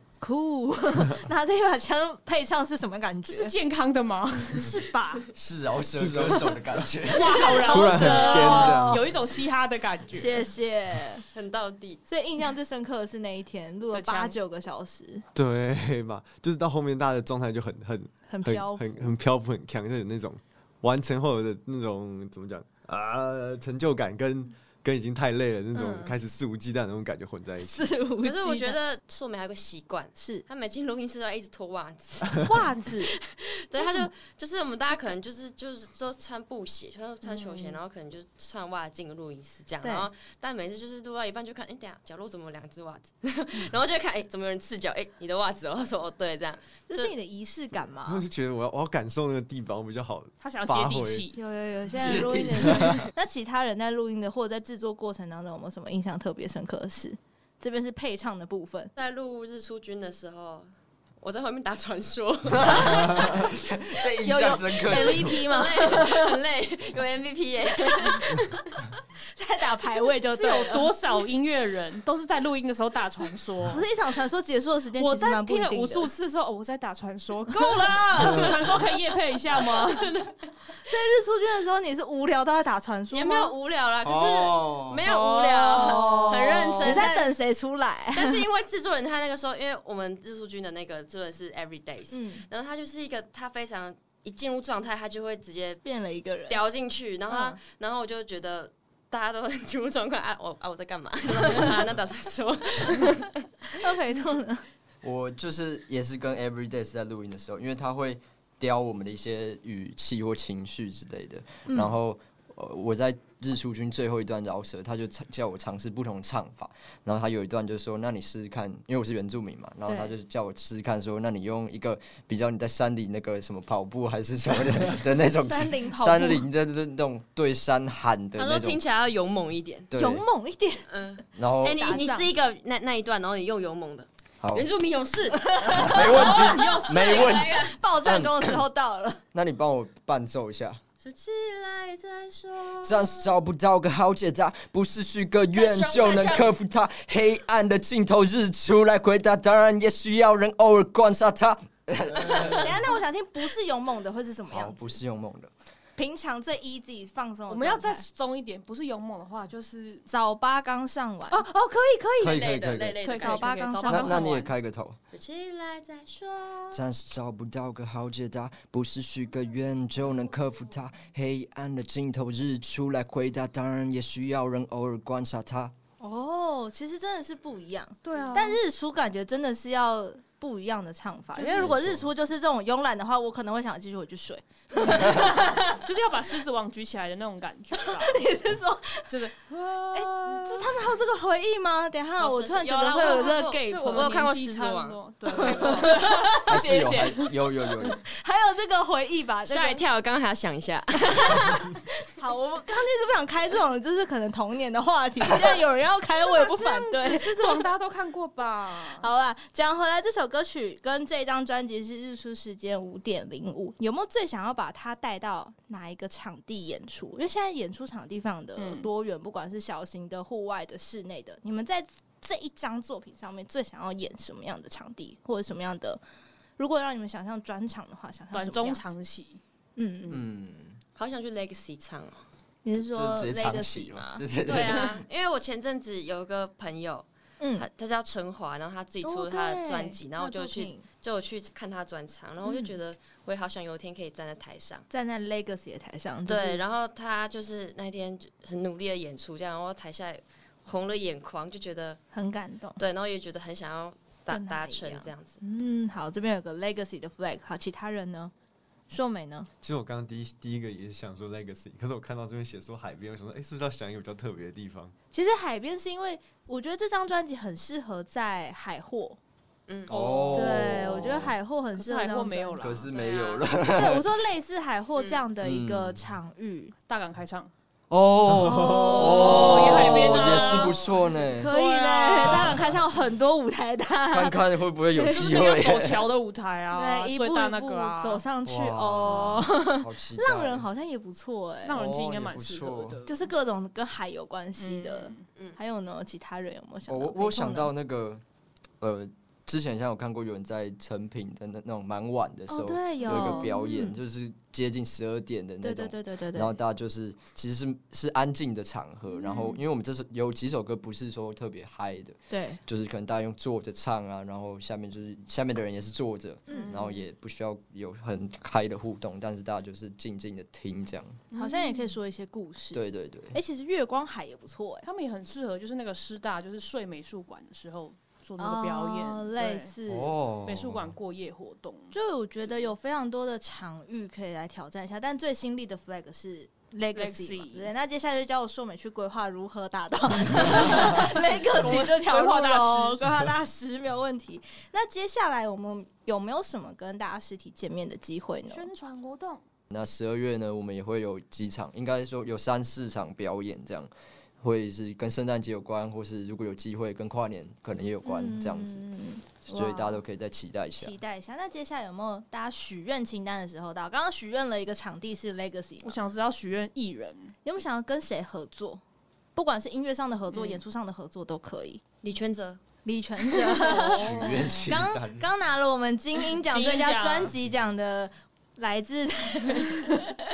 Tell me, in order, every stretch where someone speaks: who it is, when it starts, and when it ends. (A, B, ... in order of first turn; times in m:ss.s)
0:00.2-0:03.5 A
0:03.3-0:05.3 B
0:04.5-0:05.2 A
0:05.3-0:07.7 C
0:05.9-0:06.9 D
0:07.1-0:10.4 B
0:07.3-0:09.0 A
0:07.6-0:09.1 D
0:10.1-0:11.2 A
0:11.3-0:12.0 E
0:12.0-0:15.2 A
0:13.9-0:14.4 B
0:15.3-0:27.9 D
0:18.3-0:19.1 A
0:25.8-0:26.1 A
0:27.6-0:28.8 A
0:28.2-0:47.1 E
0:30.2-0:30.4 A
0:32.4-0:33.1 A
0:33.8-0:34.1 A
0:37.2-0:37.8 A
0:39.8-0:40.1 A
0:46.9-0:48.2 A
0:48.0-0:51.3 D
0:50.4-0:51.4 B
0:51.3-0:58.9 A
0:52.0-0:53.0 C
0:52.6-0:52.9 D
0:59.0-1:00.7 E
1:01.2-1:03.6 E
1:02.5-1:05.4 C
1:04.2-1:06.4 A
1:04.3-1:08.8 E
1:07.8-1:08.2 A
1:09.3-1:10.9 A
1:10.3-1:13.8 B
1:13.6-1:16.1 A
1:15.0-1:20.2 B
1:17.8-1:18.6 E
1:19.7-1:20.4 E
1:20.8-1:23.5 A
1:23.1-1:27.4 E
1:24.0-1:25.0 C
1:25.0-1:28.4 A
1:25.5-1:27.0 B
1:28.1-1:35.8 E
1:32.1-1:32.5 A
1:35.8-1:36.6 A
1:36.5-1:43.5 E
1:37.3-1:37.6 A
1:43.8-1:44.6 A
1:45.0-2:08.8 C
1:51.7-1:51.9 A
1:59.9-2:00.1 A
2:05.3-2:06.4 A
2:08.4-2:09.9 E
2:09.9-2:10.2 C
2:10.0-2:10.9 A
2:10.9-2:17.8 E
2:11.4-2:12.0 C
2:11.7-2:12.3 A
2:14.4-2:14.7 C
2:15.4-2:19.2 A
2:15.7-2:18.6 C
2:19.3-2:20.8 C
2:21.0-2:23.4 E
2:22.8-2:32.8 C
2:25.5-2:26.5 E
2:32.3-2:35.0 A
2:34.5-2:35.5 C
2:36.0-2:38.0 A
2:37.5-2:40.0 B
2:40.1-2:41.4 A
2:41.3-2:42.4 B
2:42.2-2:43.0 C
2:42.2-2:43.6 E
2:43.0-2:44.5 B
2:43.2-2:44.3 A
2:43.9-2:45.0 C
2:45.1-2:46.8 E
2:46.7-2:55.7 C
2:56.0-3:05.8 A
2:58.0-2:58.6 B
3:01.4-3:01.7 B
3:01.4-3:02.0 C
3:04.8-3:08.2 B
3:07.8-3:09.3 A
3:09.1-3:10.7 B
3:09.9-3:14.2 A
3:12.2-3:15.9 E
3:13.6-3:17.9 B
3:15.2-3:17.0 A
3:16.5-3:18.0 C
3:18.0-3:19.8 A
3:19.4-3:21.8 E
3:22.2-3:27.7 A
3:26.2-3:29.1 B
3:28.9-3:46.0 A
3:38.6-3:38.9 B
3:46.6-3:48.9 A
3:48.3-3:49.4 B
3:49.8-3:50.2 A
3:50.1-3:50.8 C
3:51.0-3:52.2 E
3:52.6-3:54.2 A
3:52.8-3:55.0 C
3:54.4-4:04.8 E
3:57.4-3:57.7 A
3:59.0-4:00.8 A
4:02.4-4:02.7 A
4:04.9-4:06.6 A
4:06.3-4:12.0 E
4:12.1-4:12.8 A
4:12.8-4:15.4 E
4:14.3-4:18.3 A
4:18.9-4:19.5 A
4:19.6-4:24.9 D
4:25.1-4:29.2 A
4:29.7-4:30.1 E
4:29.9-4:31.3 C
4:29.9-4:30.7 B
4:30.3-4:32.7 A
4:31.8-4:32.8 B
4:32.6-4:34.2 C
4:32.8-4:33.5 E
4:33.7-4:36.7 A
4:34.9-4:35.2 E
4:35.4-4:36.0 C
4:36.8-4:37.5 B
4:37.9-4:41.5 C
4:38.3-4:45.3 A
4:38.4-4:38.9 D
4:38.9-4:42.7 B
4:42.3-4:42.7 C
4:44.1-4:46.1 C
4:45.0-4:48.2 B
4:46.7-4:51.8 A
4:48.4-4:50.6 C
4:49.0-4:49.3 B
4:51.6-4:53.3 B
4:51.7-4:53.0 C
4:53.0-4:57.7 A
4:54.6-4:55.3 B
4:56.9-4:58.2 C
4:58.8-5:21.2 C
5:02.5-5:04.0 A
5:03.0-5:03.6 B
5:05.6-5:06.5 A
5:09.3-5:09.6 A
5:12.3-5:12.6 A
5:16.5-5:16.9 A
5:16.5-5:17.0 B
5:21.3-5:21.9 B
5:21.4-5:22.8 A
5:22.7-5:23.4 C
5:23.3-5:24.9 A
5:24.8-5:29.7 B
5:28.4-5:30.1 A
5:29.9-5:30.9 C
5:30.4-5:31.9 B
5:31.9-5:48.7 A
5:36.9-5:37.7 B
5:40.4-5:43.0 B
5:48.5-5:49.4 B
5:49.7-5:53.9 C
5:54.4-5:58.8 C
5:58.0-6:00.0 A
5:59.4-6:01.0 C
6:00.7-6:06.0 A
6:05.8-6:07.3 B
6:07.4-6:08.8 A
6:09.3-6:11.8 A
6:10.3-6:10.6 B
6:12.0-6:12.6 E
6:12.8-6:20.1 A
6:13.5-6:14.7 B
6:13.8-6:15.3 C
6:16.4-6:17.3 B